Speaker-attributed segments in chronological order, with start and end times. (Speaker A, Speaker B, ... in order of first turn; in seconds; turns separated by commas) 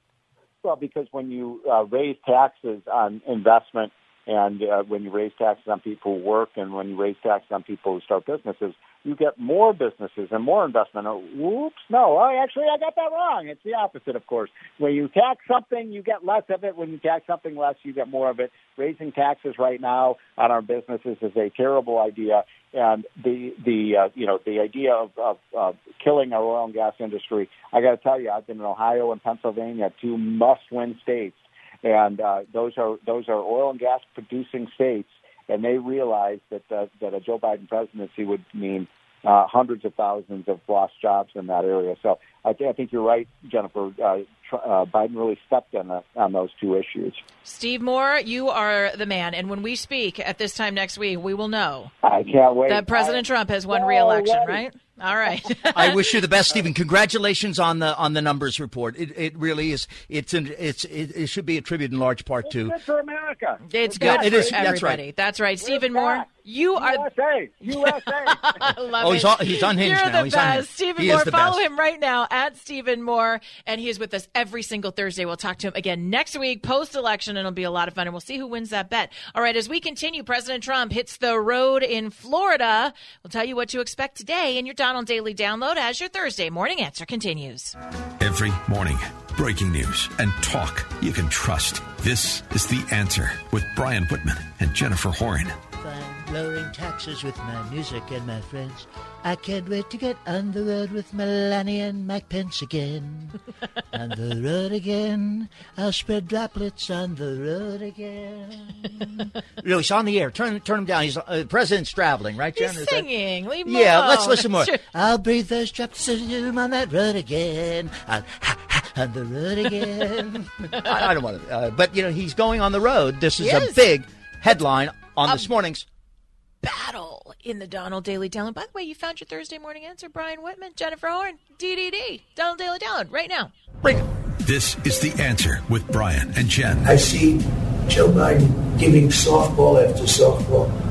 Speaker A: 0.6-47.2, Speaker B: 47.4-51.9, Speaker A: 52.0-54.6, Speaker B: 52.7-56.1, Speaker C: 55.7-62.8, Speaker A: 62.5-64.7, Speaker B: 63.7-67.0, Speaker C: 64.0-65.0, Speaker A: 65.6-68.4, Speaker B: 67.7-87.8, Speaker C: 69.0-71.6, Speaker D: 88.2-95.6, Speaker C: 95.8-103.4, Speaker C: 103.9-113.1, Speaker B: 112.5-114.8, Speaker C: 113.6-125.8, Speaker B: 123.4-123.8, Speaker B: 126.6-133.5, Speaker D: 134.4-136.9, Speaker E: 136.8-140.7